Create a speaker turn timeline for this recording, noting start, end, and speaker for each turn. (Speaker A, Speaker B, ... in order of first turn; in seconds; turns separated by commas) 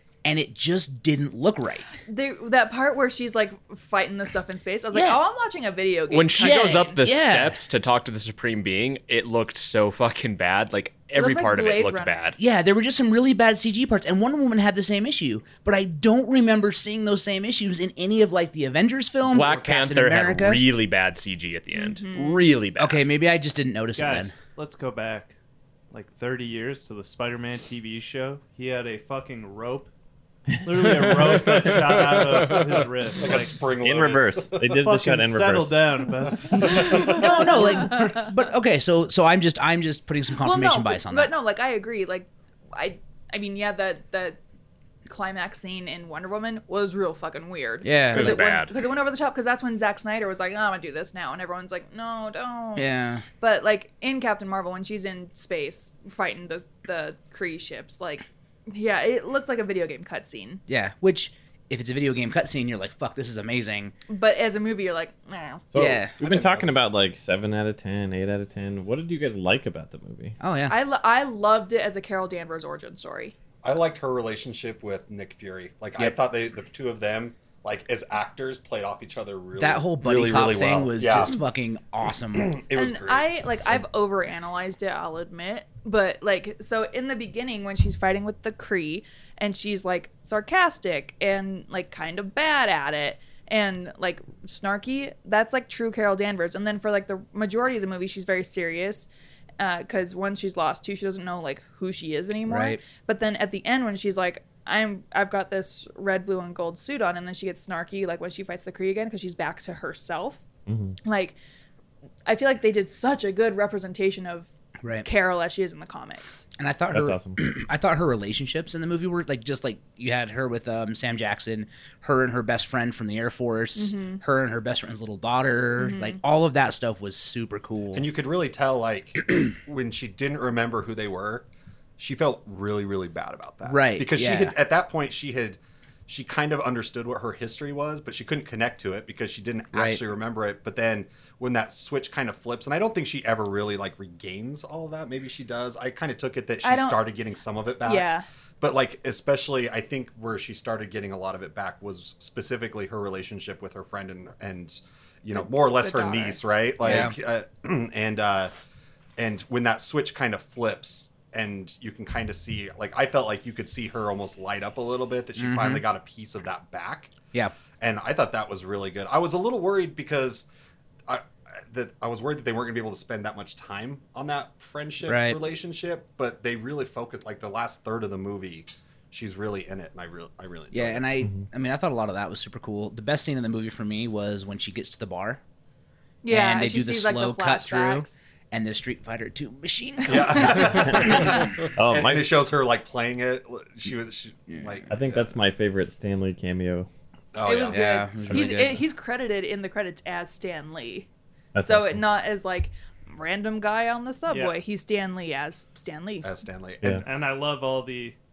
Speaker A: 0.2-1.9, Speaker B: 2.1-7.0, Speaker A: 4.9-5.2, Speaker C: 6.1-12.4, Speaker A: 6.4-7.6, Speaker B: 11.2-12.3, Speaker A: 12.4-20.6, Speaker C: 19.2-23.0, Speaker B: 21.7-22.5, Speaker A: 22.8-24.4, Speaker D: 24.0-25.3, Speaker D: 25.9-29.9, Speaker E: 30.6-31.7, Speaker D: 30.6-33.7, Speaker C: 32.2-32.8, Speaker F: 33.2-34.7, Speaker E: 33.8-35.8, Speaker D: 34.6-37.9, Speaker F: 36.7-37.2, Speaker B: 36.8-38.3, Speaker A: 37.0-41.3, Speaker B: 40.4-44.4, Speaker B: 45.1-60.6, Speaker A: 47.8-48.5, Speaker C: 48.1-48.7, Speaker A: 52.8-53.2, Speaker A: 60.7-64.0, Speaker B: 64.1-65.6, Speaker E: 65.7-70.4, Speaker A: 65.8-66.2, Speaker F: 66.2-66.8, Speaker A: 70.4-70.8, Speaker B: 70.7-73.3, Speaker F: 73.6-81.4, Speaker A: 79.6-82.6, Speaker F: 82.3-83.3, Speaker B: 82.7-99.1, Speaker B: 99.6-110.4, Speaker A: 102.5-102.8, Speaker E: 110.7-111.0, Speaker B: 111.0-111.4, Speaker B: 112.3-114.5, Speaker A: 114.8-115.1, Speaker B: 115.0-116.5, Speaker A: 116.6-128.1, Speaker E: 116.9-117.4, Speaker B: 123.8-124.2, Speaker B: 125.8-126.2, Speaker F: 127.9-131.5, Speaker F: 132.0-148.1, Speaker A: 133.7-134.5, Speaker A: 139.7-140.0, Speaker B: 146.6-147.0, Speaker B: 147.8-148.2, Speaker F: 148.6-158.5, Speaker B: 155.3-156.4, Speaker A: 156.8-157.2, Speaker F: 159.2-167.1, Speaker A: 165.4-165.8, Speaker F: 167.8-170.5, Speaker F: 171.1-181.1, Speaker A: 175.1-175.4, Speaker A: 180.7-185.4, Speaker B: 186.2-188.2, Speaker A: 186.3-191.6, Speaker F: 190.1-195.3, Speaker E: 190.7-192.3, Speaker A: 194.5-194.9, Speaker E: 194.9-196.9, Speaker F: 197.3-197.9, Speaker B: 197.4-201.1, Speaker A: 197.7-198.8, Speaker E: 201.5-202.0, Speaker B: 201.6-206.3, Speaker D: 204.3-204.6, Speaker F: 206.2-207.0, Speaker D: 207.0-208.2